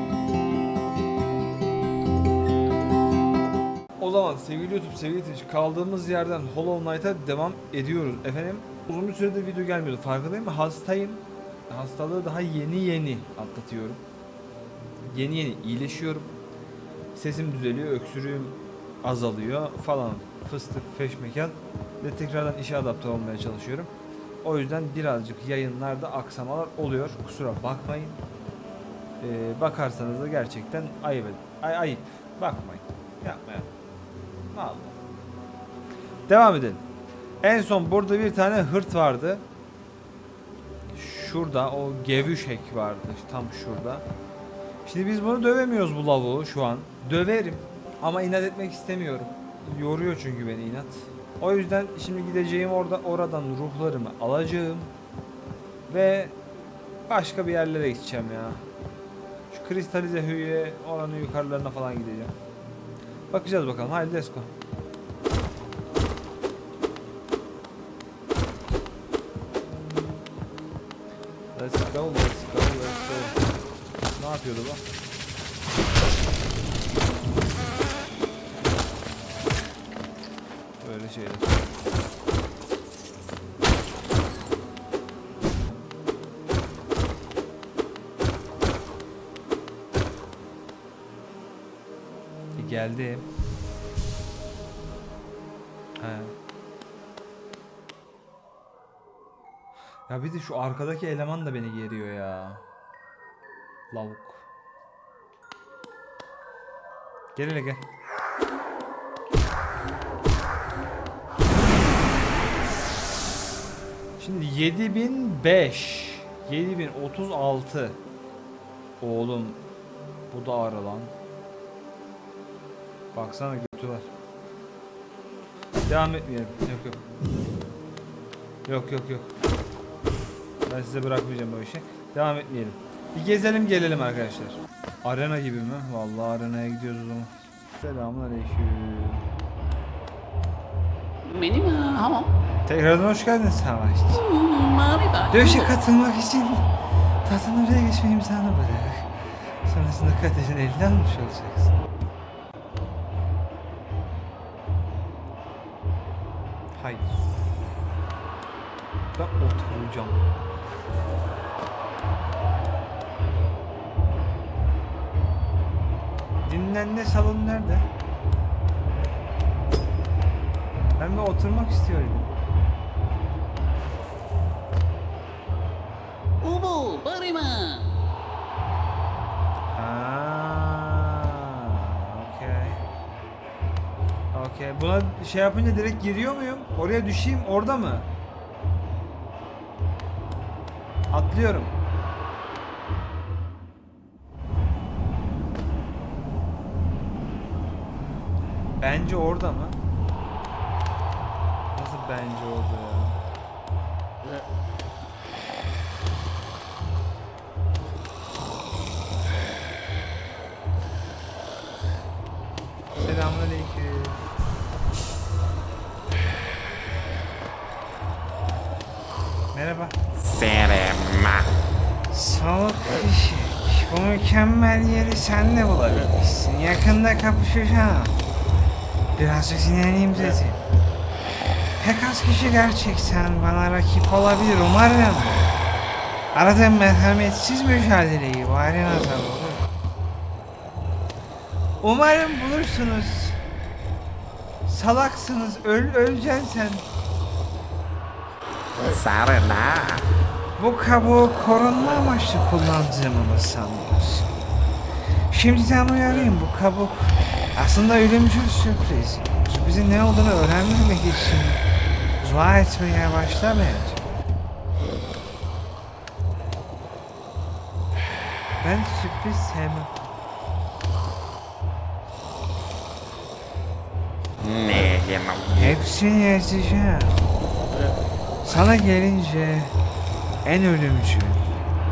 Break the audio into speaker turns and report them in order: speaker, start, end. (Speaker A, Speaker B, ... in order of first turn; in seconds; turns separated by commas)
Speaker A: 4.0-14.0, Speaker A: 15.1-16.3, Speaker A: 17.1-23.9, Speaker A: 24.4-28.2, Speaker A: 29.2-33.7, Speaker A: 34.5-35.0, Speaker A: 36.3-36.8, Speaker A: 37.4-39.5, Speaker A: 41.0-44.0, Speaker A: 44.9-54.9, Speaker A: 55.9-56.4, Speaker A: 57.1-58.6, Speaker A: 59.5-62.4, Speaker A: 63.3-64.5, Speaker A: 71.5-73.4, Speaker A: 74.2-74.8, Speaker A: 80.8-81.7, Speaker A: 92.6-93.3, Speaker A: 96.0-96.3, Speaker A: 100.1-102.7, Speaker A: 103.9-104.5, Speaker A: 107.3-107.8, Speaker A: 114.2-118.0, Speaker A: 119.0-119.7, Speaker A: 120.3-121.1, Speaker A: 123.1-124.1, Speaker A: 125.9-127.0, Speaker A: 128.7-129.3, Speaker A: 130.7-139.2, Speaker B: 141.2-142.3, Speaker A: 142.7-144.2, Speaker B: 144.1-145.7, Speaker A: 145.3-146.7, Speaker A: 147.2-149.1, Speaker A: 149.6-151.9, Speaker A: 156.7-157.2, Speaker A: 159.2-160.2, Speaker A: 166.4-167.9, Speaker A: 171.0-172.3, Speaker B: 176.4-177.9, Speaker A: 179.7-182.8, Speaker A: 184.3-188.1, Speaker A: 191.1-191.8, Speaker A: 198.8-199.8, Speaker A: 201.8-203.2, Speaker A: 213.0-214.2, Speaker A: 219.5-220.0, Speaker C: 220.2-221.5, Speaker A: 222.1-228.2, Speaker A: 229.2-230.6, Speaker A: 231.8-235.5, Speaker A: 236.3-239.7, Speaker A: 241.8-243.4, Speaker A: 244.7-246.9, Speaker C: 248.8-250.1, Speaker A: 250.6-254.3, Speaker A: 255.3-261.6, Speaker A: 262.2-264.0, Speaker A: 268.6-269.9, Speaker C: 274.4-275.8, Speaker A: 275.6-277.2, Speaker A: 278.4-279.8, Speaker A: 280.4-281.5